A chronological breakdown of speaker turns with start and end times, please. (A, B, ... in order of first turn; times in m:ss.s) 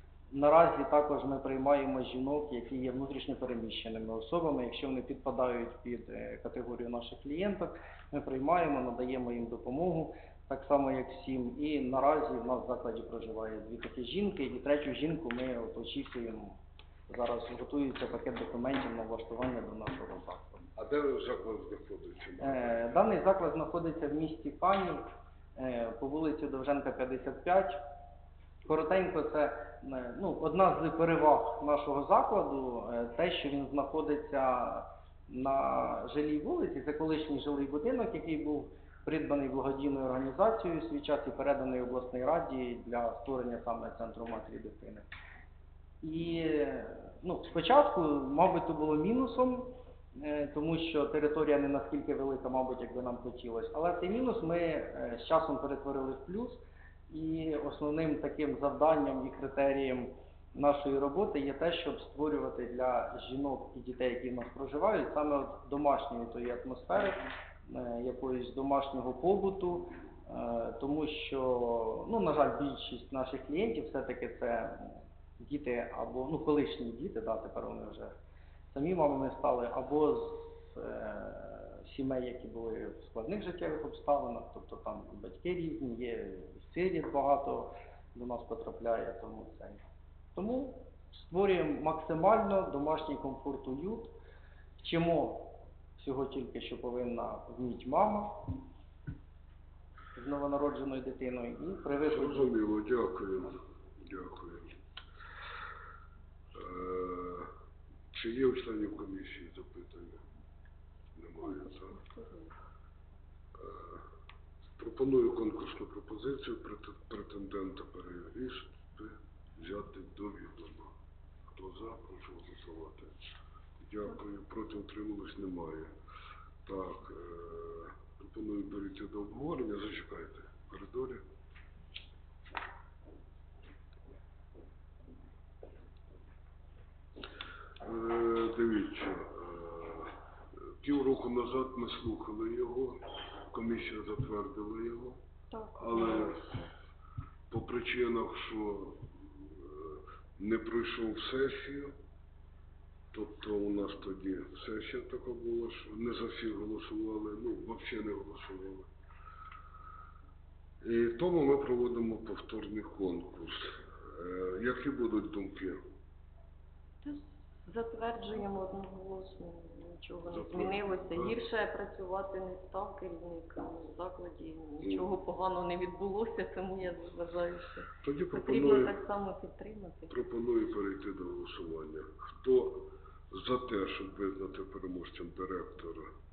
0:00.3-0:16.6 A
0:17.1-0:20.7 A
0:20.8-0:22.9 B
0:22.4-0:25.0 A
0:25.6-0:27.8 A
0:28.7-0:45.1 A
0:46.0-1:18.1 A
1:18.7-1:29.8 A
1:30.3-1:34.1 A
1:34.8-1:38.6 A
1:40.1-1:42.6 A
1:42.0-1:44.7 B
1:46.5-1:47.5 B
1:48.1-1:50.2 B
1:51.2-1:52.0 B
1:51.4-1:52.5 C
1:53.5-1:54.0 B
1:54.8-2:00.9 B
2:01.5-2:03.1 B
2:03.8-2:05.9 B
2:06.6-2:11.2 B
2:17.8-2:20.1 B
2:20.8-2:25.2 B
2:25.5-2:26.7 C
2:25.8-2:26.6 B
2:27.5-2:31.9 B
2:33.1-2:38.9 B
2:40.8-2:45.8 B
2:47.0-3:00.1 C
2:50.3-2:51.4 B
2:58.0-2:59.0 B
3:00.1-3:06.1 B